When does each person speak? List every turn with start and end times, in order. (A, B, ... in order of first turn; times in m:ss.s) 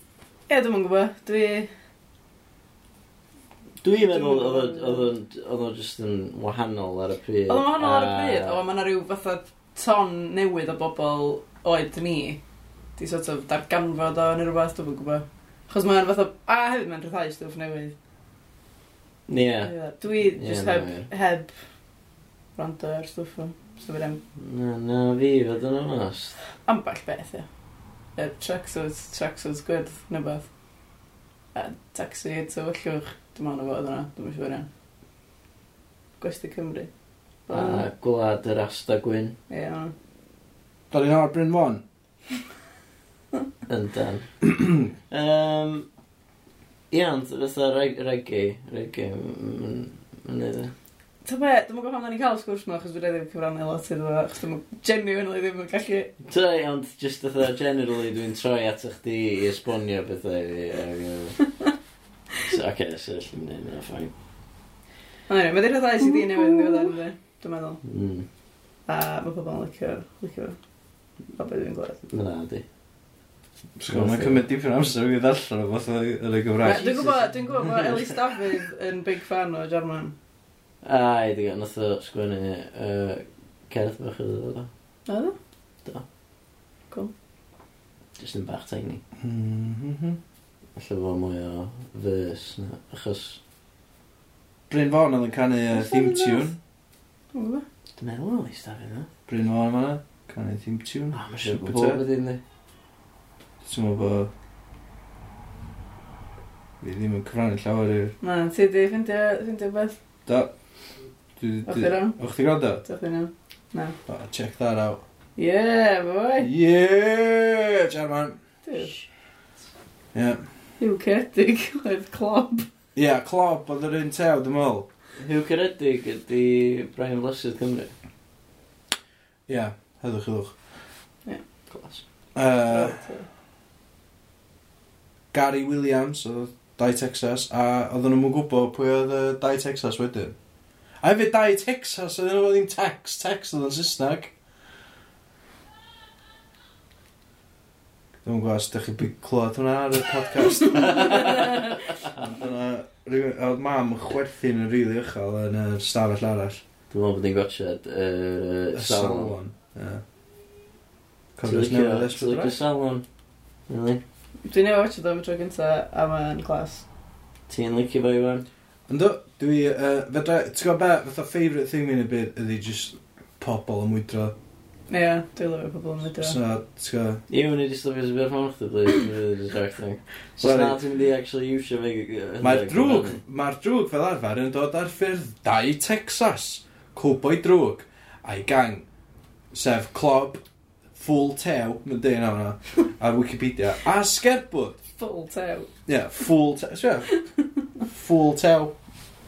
0:00.5-0:01.7 A
0:03.8-0:08.6 B
0:04.1-0:05.1 A
0:07.5-0:12.4 A
0:13.0-0:17.9 A
0:19.3-0:21.1 B
0:19.6-0:21.5 A
0:22.6-0:24.2 A
0:24.4-0:26.4 B
0:26.7-0:27.5 A
0:28.2-0:30.4 A
0:31.5-0:34.7 A
0:36.2-0:36.9 A
0:37.5-0:37.9 A
0:37.5-0:39.4 B
0:39.5-0:39.9 A
0:40.9-0:41.8 C
0:43.7-0:44.3 B
0:45.1-0:45.9 B
0:46.9-0:50.7 B
0:51.2-0:56.1 A
0:56.3-1:01.4 B
1:02.4-1:04.1 B
1:05.3-1:07.8 A
1:07.8-1:08.3 B
1:08.9-1:10.6 A
1:11.3-1:12.0 A
1:12.1-1:12.6 B
1:13.8-1:17.2 C
1:13.9-1:14.4 B
1:16.6-1:20.1 A
1:16.8-1:17.2 B
1:20.8-1:24.7 B
1:25.1-1:25.4 A
1:28.2-1:29.0 B
1:29.2-1:30.2 C
1:30.8-1:33.4 B
1:34.7-1:36.6 C
1:35.7-1:36.5 A
1:37.3-1:37.6 A
1:38.0-1:39.1 B
1:39.3-1:42.0 C
1:41.1-1:42.4 B
1:43.6-1:44.3 C
1:46.8-1:48.1 C
1:48.2-1:50.0 A
1:50.3-1:50.5 C
1:51.4-1:52.8 C
1:51.7-1:52.2 A
1:52.8-1:54.0 A
1:54.1-1:55.0 C
1:55.4-1:56.5 A
1:56.4-1:58.4 C
1:58.7-1:58.9 A
2:00.1-2:00.4 C
2:00.8-2:02.7 A
2:03.0-2:04.9 C
2:05.2-2:07.9 B
2:09.5-2:10.5 C
2:11.7-2:12.0 B
2:12.4-2:13.0 C
2:12.7-2:13.2 A
2:15.3-2:20.4 C
2:21.0-2:24.3 C
2:28.2-2:36.6 C
2:36.9-2:39.3 B
2:38.8-2:40.0 C
2:41.4-2:42.6 C
2:41.4-2:43.0 B
2:43.7-2:44.0 B
2:44.5-2:46.8 A
2:47.5-2:48.5 B
2:48.9-2:54.3 C
2:54.9-2:56.4 A
2:56.2-2:57.2 C
2:57.3-3:03.2 B
3:00.4-3:00.8 C
3:02.4-3:08.9 C
3:09.5-3:10.4 C
3:11.0-3:14.8 C
3:15.0-3:15.7 A
3:15.9-3:17.2 C
3:17.8-3:18.7 C